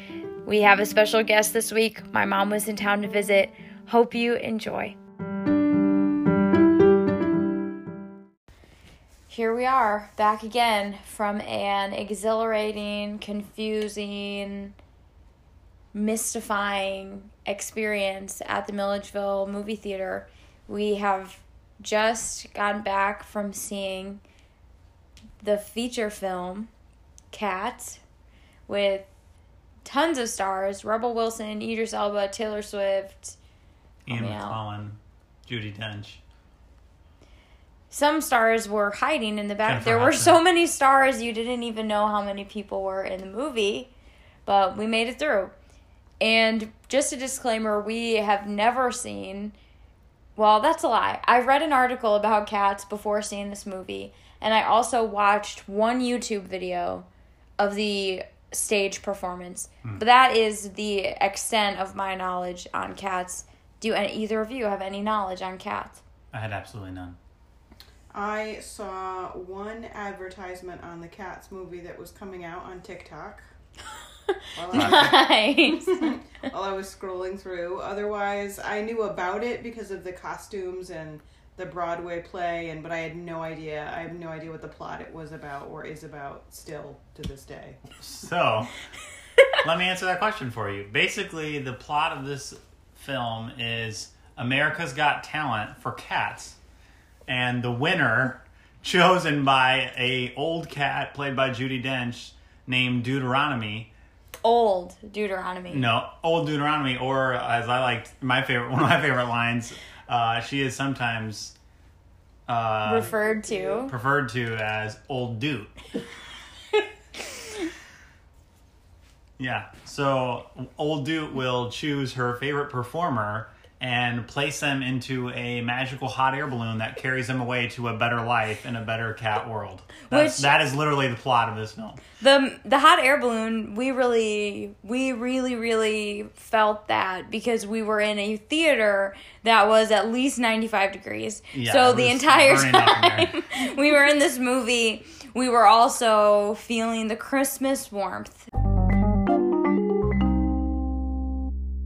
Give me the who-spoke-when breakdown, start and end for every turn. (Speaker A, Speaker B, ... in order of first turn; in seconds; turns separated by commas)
Speaker A: 0.5-5.0, Speaker A: 9.3-14.7, Speaker A: 15.9-24.2, Speaker A: 25.4-26.7, Speaker A: 27.3-28.0, Speaker A: 28.7-29.1, Speaker A: 29.9-33.4, Speaker B: 34.1-36.2, Speaker A: 34.1-34.6, Speaker A: 37.9-43.9, Speaker B: 39.7-40.4, Speaker A: 44.5-45.5, Speaker A: 46.2-49.5, Speaker A: 50.4-57.1, Speaker A: 57.6-66.0, Speaker B: 66.3-67.2, Speaker C: 68.1-73.4, Speaker A: 74.3-76.1, Speaker C: 74.6-87.9, Speaker B: 74.7-75.2, Speaker B: 88.0-88.8, Speaker B: 89.6-96.6, Speaker B: 97.3-103.9, Speaker A: 104.4-105.9, Speaker B: 105.7-111.6, Speaker B: 112.5-113.1, Speaker A: 112.8-113.9, Speaker C: 113.0-113.8, Speaker B: 113.8-115.8, Speaker B: 119.4-132.0, Speaker A: 130.1-130.5, Speaker A: 132.2-148.5, Speaker B: 141.5-143.3